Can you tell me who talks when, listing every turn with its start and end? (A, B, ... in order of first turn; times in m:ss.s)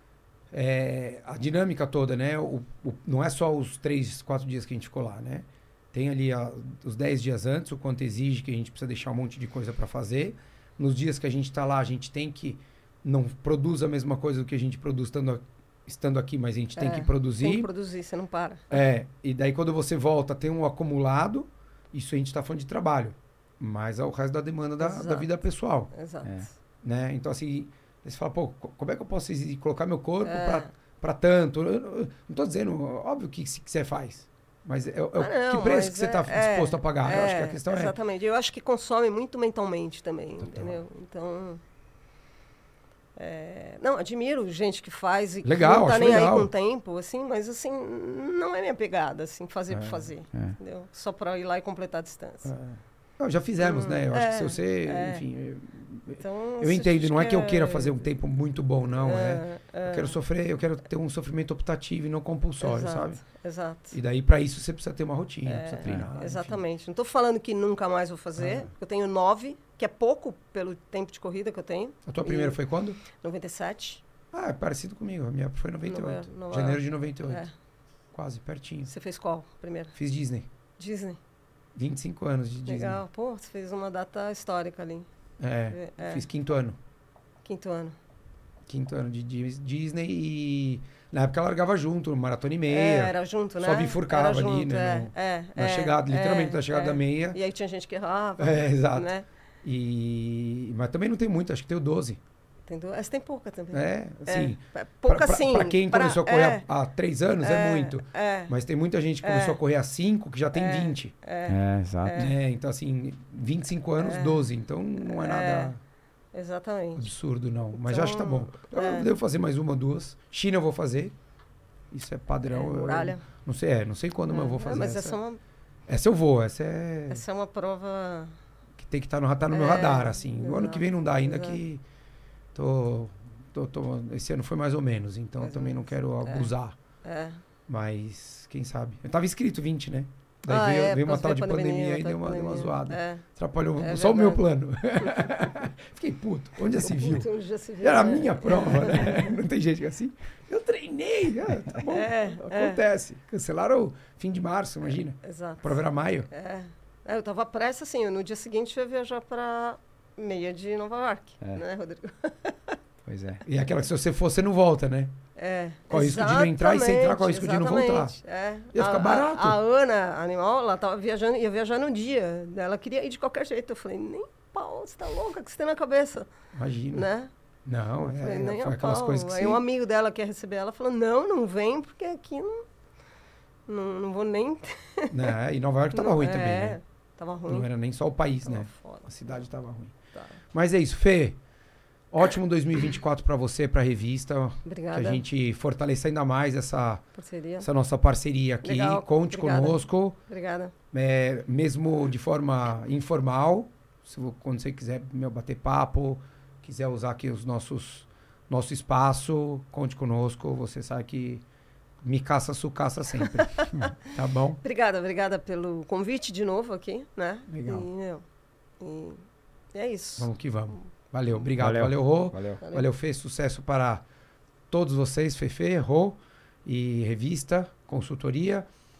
0:00.5-0:17.7 A
0:16.8-0:18.7 B
0:18.7-0:25.9 A
0:24.8-0:25.3 B
0:25.9-0:26.6 B
0:26.8-0:38.0 A
0:30.2-0:30.7 B
0:35.2-0:41.6 B
0:40.4-0:40.8 A
0:43.2-0:52.6 B
0:45.4-0:46.5 A
0:52.5-1:03.2 A
0:53.6-0:55.2 B
0:56.2-0:58.1 B
0:58.9-1:00.2 B
1:02.6-1:04.0 B
1:03.9-1:06.6 A
1:05.5-1:12.6 B
1:08.4-1:08.7 A
1:12.1-1:13.0 A
1:13.1-1:14.0 B
1:14.3-1:17.4 A
1:15.9-1:17.5 B
1:18.1-1:18.9 A
1:18.9-1:20.0 B
1:20.0-1:20.5 A
1:20.8-1:21.2 B
1:21.8-1:23.0 A
1:22.7-1:25.1 B
1:25.4-1:26.8 A
1:25.7-1:26.3 B
1:27.4-1:28.0 B
1:28.7-1:37.4 A
1:32.7-1:39.3 B
1:38.4-1:39.1 A
1:39.6-1:42.2 A
1:42.7-1:46.7 B
1:43.7-1:51.1 A
1:47.4-1:48.5 B
1:49.2-1:49.6 B
1:50.5-1:52.3 B
1:51.5-1:52.3 C
1:52.2-1:55.8 A
1:54.0-1:54.5 B
1:55.0-1:55.8 B
1:56.3-1:57.1 B
1:57.0-2:01.2 A
1:57.7-1:59.1 B
2:01.9-2:05.2 A
2:02.4-2:03.2 B
2:04.3-2:05.4 B
2:05.9-2:07.2 A
2:07.1-2:08.4 B
2:08.8-2:11.8 A
2:09.5-2:11.6 B
2:12.6-2:16.8 A
2:15.4-2:16.5 B
2:17.0-2:17.4 B
2:17.7-2:27.3 A
2:20.5-2:23.2 B
2:23.8-2:25.4 B
2:26.8-2:29.4 B
2:27.8-2:36.3 A
2:31.9-2:32.8 B
2:34.9-2:42.8 B
2:43.1-2:43.4 C
2:43.4-2:45.2 A
2:45.4-2:56.3 B
2:45.9-2:48.2 A
2:48.7-2:49.6 A
2:56.5-2:57.1 A
2:56.9-2:57.3 B
2:57.7-2:59.6 A
2:58.0-3:02.6 B
3:03.7-3:05.3 B
3:05.1-3:06.8 A
3:05.9-3:07.7 B
3:07.5-3:09.9 A
3:08.4-3:09.4 B
3:10.1-3:10.4 B
3:10.5-3:11.4 A
3:12.1-3:17.0 A
3:14.6-3:15.2 B
3:17.2-3:17.7 B
3:17.6-3:20.2 A
3:18.6-3:20.7 B
3:20.9-3:31.4 A
3:32.0-3:34.6 A
3:33.3-3:33.9 B
3:34.6-3:38.2 B
3:38.8-3:39.2 B
3:39.7-3:40.3 B
3:40.2-3:44.0 A
3:41.6-3:42.6 C
3:44.7-3:48.7 A